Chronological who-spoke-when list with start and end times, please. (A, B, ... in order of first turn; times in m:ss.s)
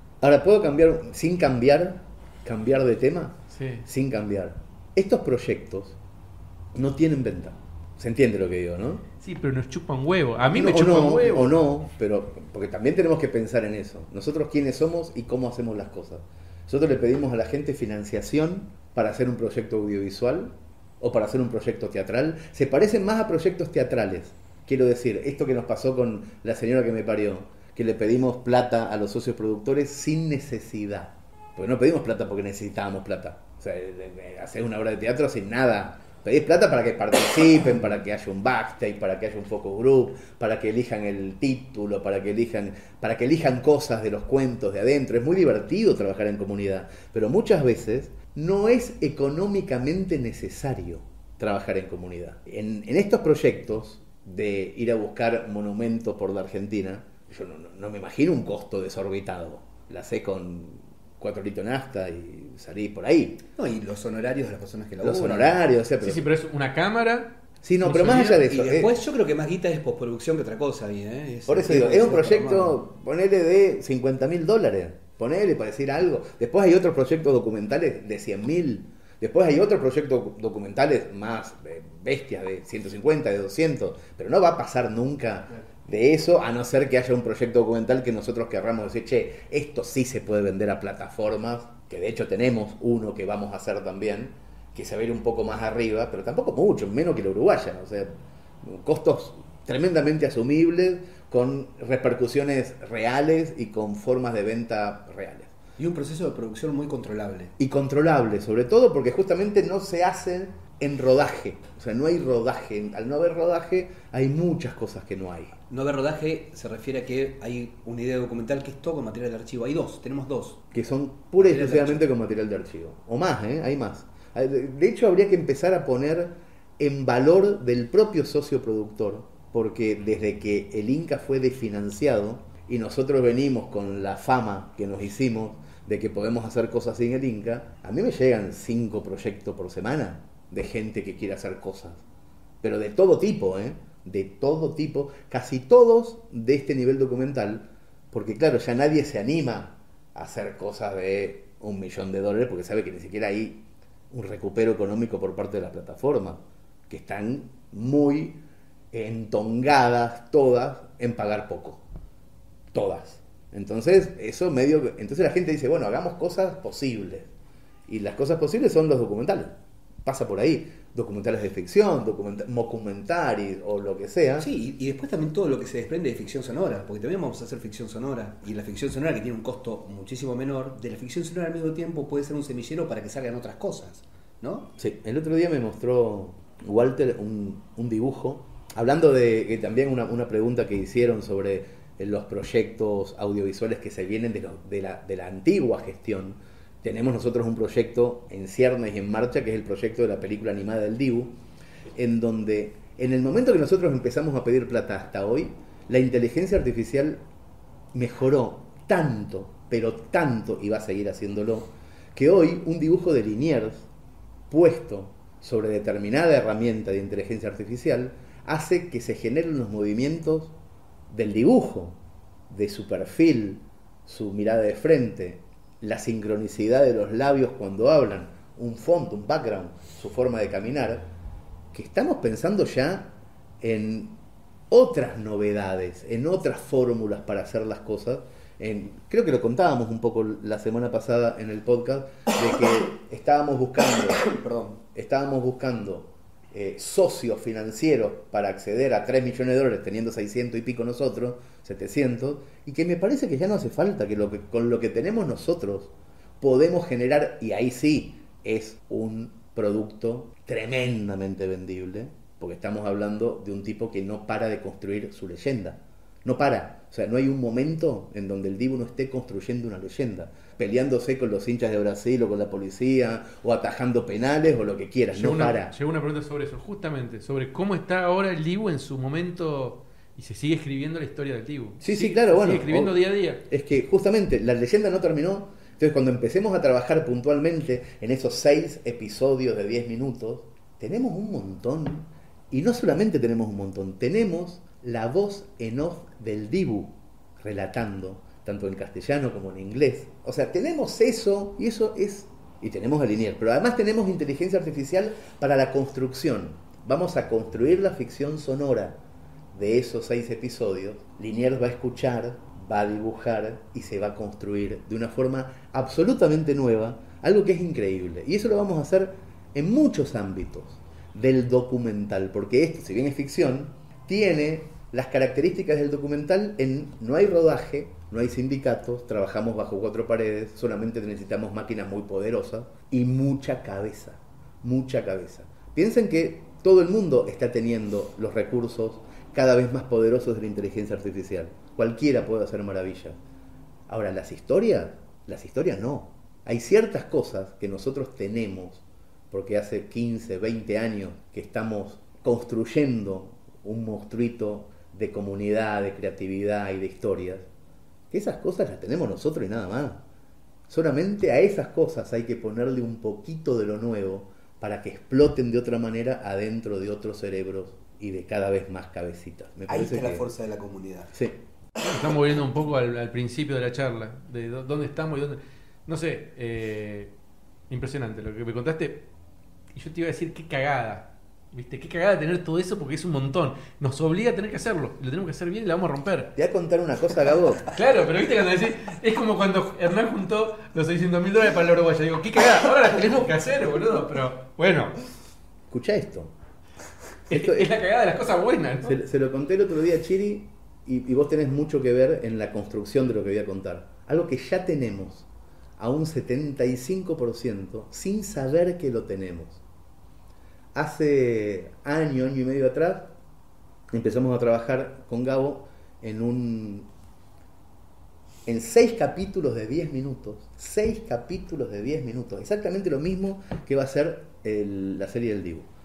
0:00.2-0:06.0 A
0:03.5-0:03.8 B
0:06.7-0:09.0 A
0:09.2-0:11.5 B
0:10.5-1:03.4 A
1:03.6-1:05.6 C
1:05.0-1:06.2 A
1:06.0-1:07.4 B
1:07.6-1:08.9 A
1:07.9-1:12.8 C
1:08.0-1:08.4 B
1:11.5-1:45.5 A
1:45.8-1:47.5 C
1:47.6-1:55.6 A
1:55.7-2:00.6 C
2:00.7-2:22.0 A
2:01.4-2:02.0 C
2:22.6-2:41.8 A
2:42.7-2:47.3 A
2:47.9-2:54.5 A
2:54.4-3:04.7 C
3:04.8-3:21.4 A
3:21.9-3:27.2 A
3:27.9-3:33.9 A
3:34.5-3:40.6 A
3:41.1-3:51.1 A
3:51.7-3:54.2 A
3:54.7-4:04.2 A
4:04.2-4:04.8 C
4:04.9-4:35.7 A
4:35.1-4:43.4 B
4:41.8-4:43.0 A
4:43.5-5:09.0 A
5:09.5-5:43.2 A
5:43.9-5:57.5 A
5:58.1-6:00.0 A
6:00.7-6:10.3 A
6:09.7-6:11.1 C
6:11.8-6:17.1 B
6:17.7-6:19.1 B
6:19.7-6:26.3 B
6:26.4-6:27.7 A
6:27.7-6:35.0 B
6:35.7-6:36.3 A
6:37.3-6:39.0 B
6:37.3-6:37.7 A
6:38.8-6:45.3 A
6:45.8-6:49.6 A
6:50.7-6:53.1 A
6:53.9-6:56.9 A
6:58.5-7:05.7 A